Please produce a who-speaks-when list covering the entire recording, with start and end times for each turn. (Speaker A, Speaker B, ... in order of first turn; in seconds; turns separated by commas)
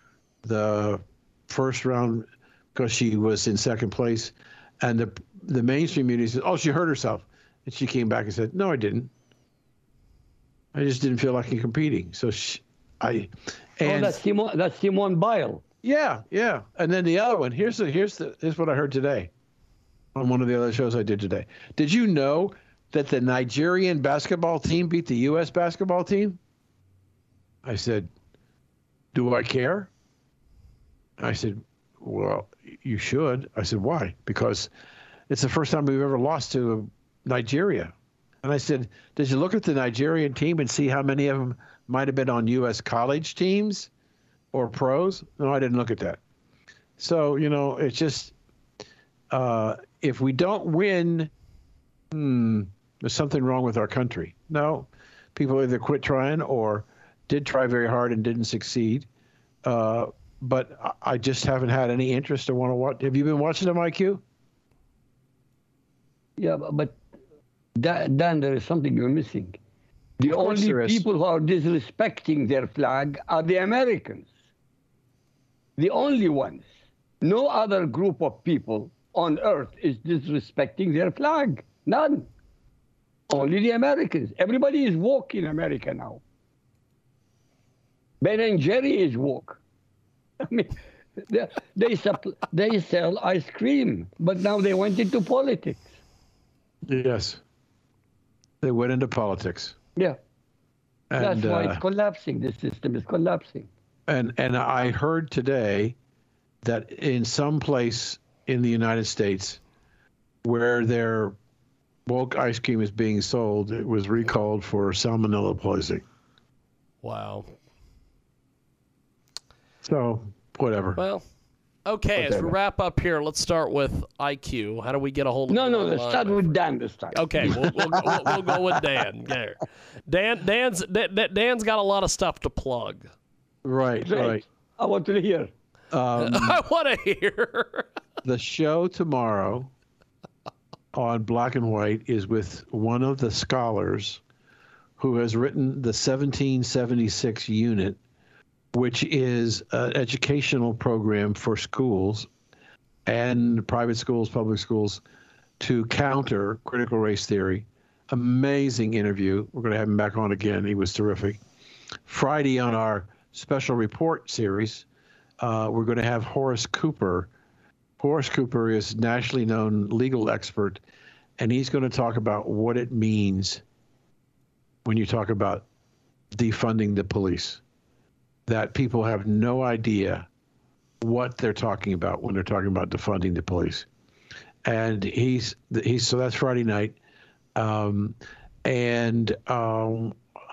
Speaker A: 0.4-9.1, Speaker A: 10.7-14.2, Speaker B: 13.8-15.6, Speaker A: 15.8-19.3, Speaker A: 20.1-26.4, Speaker A: 27.6-28.1, Speaker A: 29.1-29.9, Speaker A: 31.2-34.7, Speaker A: 35.3-43.9, Speaker A: 44.5-46.2, Speaker A: 47.0-48.3, Speaker A: 49.3-51.3, Speaker A: 52.1-59.1, Speaker A: 59.6-64.2, Speaker B: 66.4-67.0, Speaker B: 67.8-69.6, Speaker B: 70.2-74.3, Speaker A: 70.2-71.0, Speaker B: 75.8-76.6, Speaker B: 77.2-82.3, Speaker B: 83.3-86.2, Speaker B: 88.2-89.6, Speaker B: 90.4-95.9, Speaker A: 96.8-97.4, Speaker A: 98.6-99.7, Speaker A: 101.1-101.8, Speaker B: 101.2-103.7, Speaker A: 104.1-106.0, Speaker A: 106.6-109.6, Speaker A: 110.4-111.4, Speaker A: 112.0-116.0, Speaker C: 117.0-117.5, Speaker A: 119.8-121.0, Speaker C: 121.0-121.2, Speaker C: 121.8-126.5, Speaker B: 122.2-122.5, Speaker B: 125.5-127.7, Speaker C: 127.1-133.1, Speaker A: 127.5-128.2, Speaker A: 133.6-134.4, Speaker B: 134.0-135.5, Speaker A: 135.9-136.6, Speaker C: 136.2-137.9, Speaker A: 138.2-139.7, Speaker A: 140.9-144.2, Speaker A: 145.0-148.0, Speaker A: 148.7-152.3, Speaker A: 153.1-155.0, Speaker A: 155.6-161.4, Speaker A: 162.1-164.8, Speaker A: 165.4-167.3, Speaker A: 168.0-170.8, Speaker A: 171.4-173.6, Speaker A: 174.8-175.7, Speaker A: 176.3-177.6, Speaker A: 178.5-180.3, Speaker A: 181.0-183.9, Speaker A: 184.6-187.0, Speaker A: 187.5-190.2